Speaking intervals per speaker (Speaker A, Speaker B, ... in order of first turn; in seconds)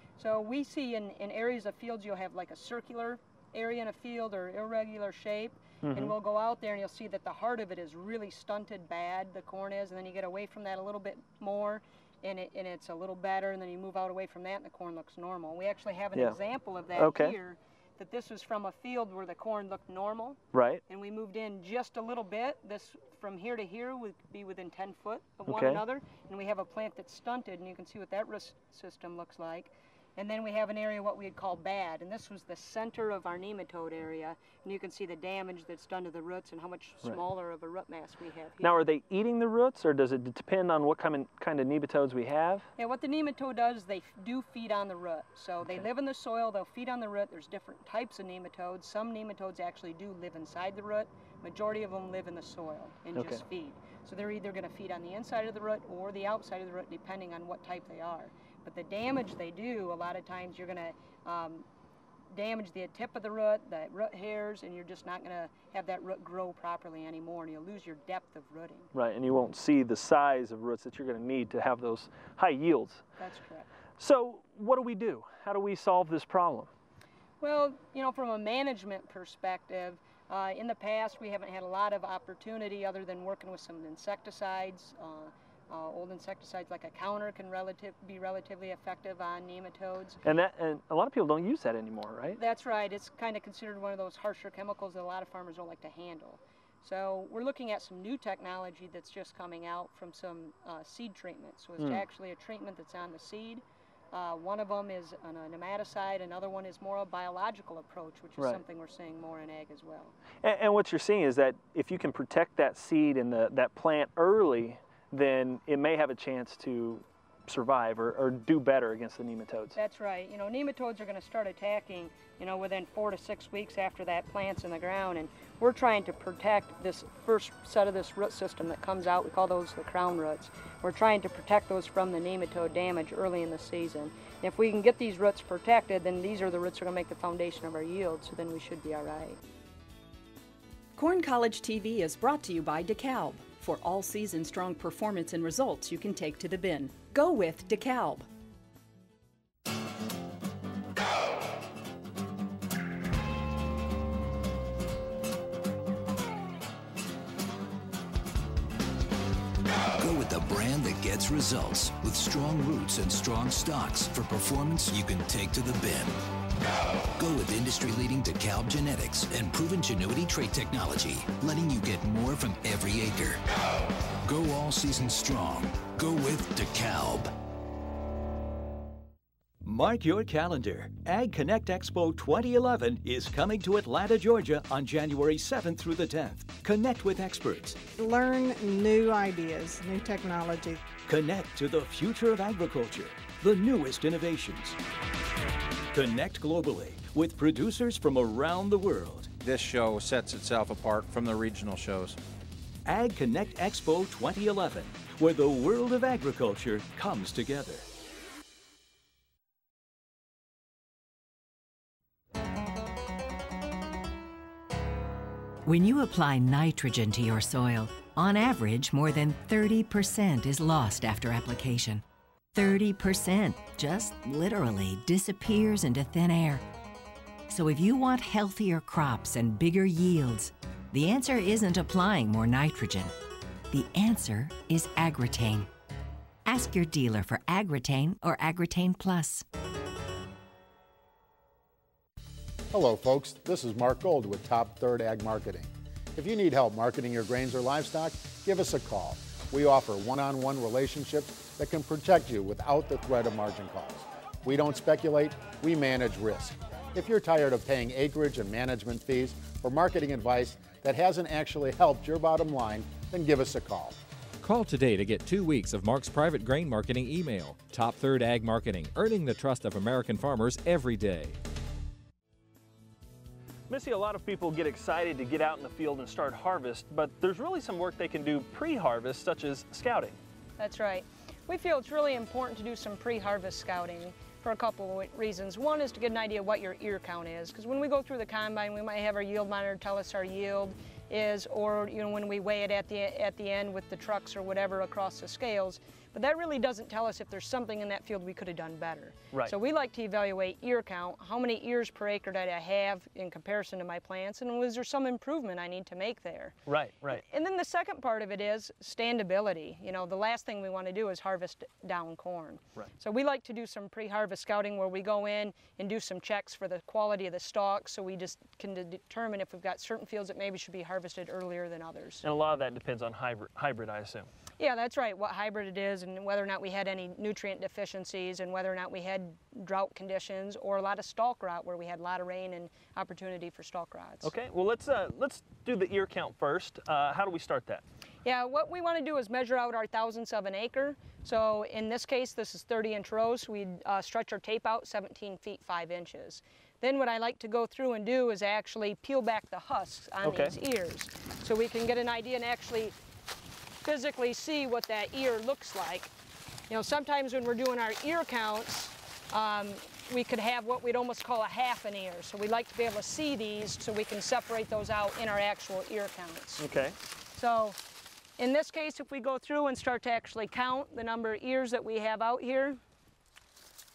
Speaker A: 0.2-38.7, 42.8-61.6, 62.3-68.9, 73.2-73.7, 77.4-90.2, 92.4-110.2, 119.8-139.4, 280.6-306.6, 307.1-322.2, 324.6-334.3, 338.2-352.9, 353.8-356.1, 356.7-366.7, 367.4-367.8, 368.4-372.8
Speaker B: 5.8-6.2, 17.0-17.4, 20.5-20.8, 25.5-25.8, 38.6-42.7, 53.1-53.4, 68.9-73.0, 74.0-76.7, 90.2-92.4, 101.8-102.0, 110.4-119.8, 273.7-280.2, 306.7-307.2, 322.2-324.3, 334.2-337.8, 350.2-350.6, 366.6-367.0
Speaker C: 140.9-148.3
Speaker D: 160.0-166.2, 167.2-173.4, 174.2-177.3
Speaker E: 179.6-187.8, 191.0-194.8, 195.9-199.3, 202.8-207.9
Speaker F: 188.0-190.9
Speaker G: 199.4-202.2
Speaker H: 215.7-226.6, 227.5-233.1, 233.7-235.7, 236.5-239.4
Speaker I: 242.7-264.0
Speaker J: 264.4-271.4